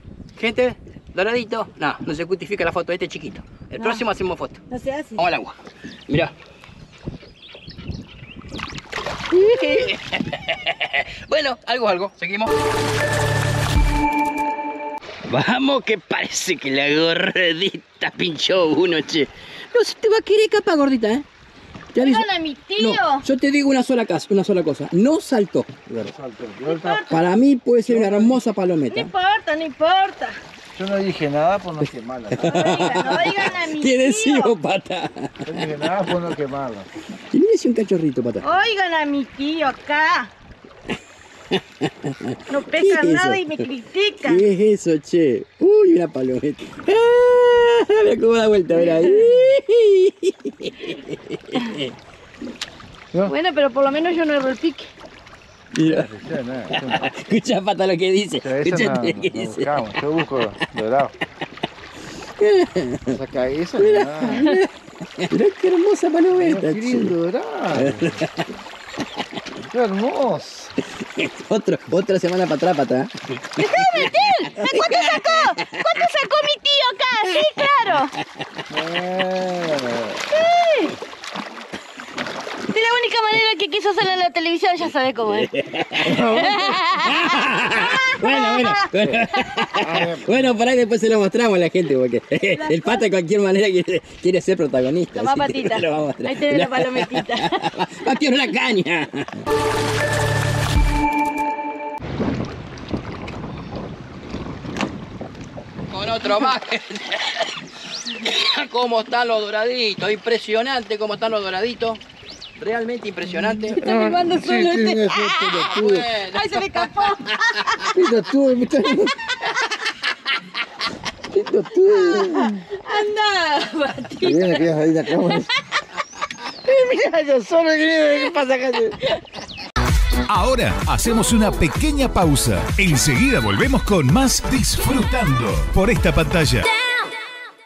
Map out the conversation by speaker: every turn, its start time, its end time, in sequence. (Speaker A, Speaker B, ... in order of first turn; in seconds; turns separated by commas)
Speaker A: 0.4-4.6, Speaker B: 3.8-4.0, Speaker B: 4.7-5.3, Speaker A: 5.2-5.6, Speaker A: 6.1-6.3, Speaker A: 9.3-12.5, Speaker A: 15.3-21.3, Speaker A: 21.9-22.2, Speaker B: 21.9-23.2, Speaker A: 22.8-26.1, Speaker C: 26.1-27.1, Speaker B: 26.6-27.1, Speaker A: 27.1-29.1, Speaker C: 27.9-28.4, Speaker B: 28.9-30.4, Speaker C: 30.8-33.1, Speaker B: 32.4-34.5, Speaker A: 32.4-35.9, Speaker C: 35.5-36.9, Speaker A: 37.3-38.5, Speaker B: 38.4-40.3, Speaker A: 41.5-43.6, Speaker B: 42.5-44.5, Speaker A: 44.2-51.9, Speaker B: 48.8-49.3, Speaker B: 53.3-54.9, Speaker A: 55.7-56.1, Speaker C: 55.8-57.1, Speaker A: 56.8-59.8, Speaker C: 58.4-61.1, Speaker A: 62.4-63.1, Speaker C: 63.1-64.5, Speaker A: 63.8-67.1, Speaker C: 66.3-68.2, Speaker A: 67.8-68.4, Speaker C: 69.7-70.7, Speaker A: 71.1-74.1, Speaker B: 73.6-78.1, Speaker A: 74.7-75.8, Speaker C: 78.7-80.2, Speaker B: 80.3-81.0, Speaker B: 82.7-85.5, Speaker A: 85.3-99.4, Speaker B: 86.1-89.7, Speaker C: 86.2-86.6, Speaker C: 89.8-90.5, Speaker B: 92.5-93.0, Speaker B: 95.2-97.6, Speaker A: 105.9-107.5, Speaker A: 108.1-112.0, Speaker A: 112.6-113.8, Speaker B: 113.7-117.7, Speaker C: 113.8-116.1, Speaker A: 115.4-117.8, Speaker C: 117.9-119.1, Speaker C: 121.3-122.6, Speaker B: 121.8-124.7, Speaker C: 124.2-125.5, Speaker C: 126.7-129.0, Speaker D: 130.3-136.7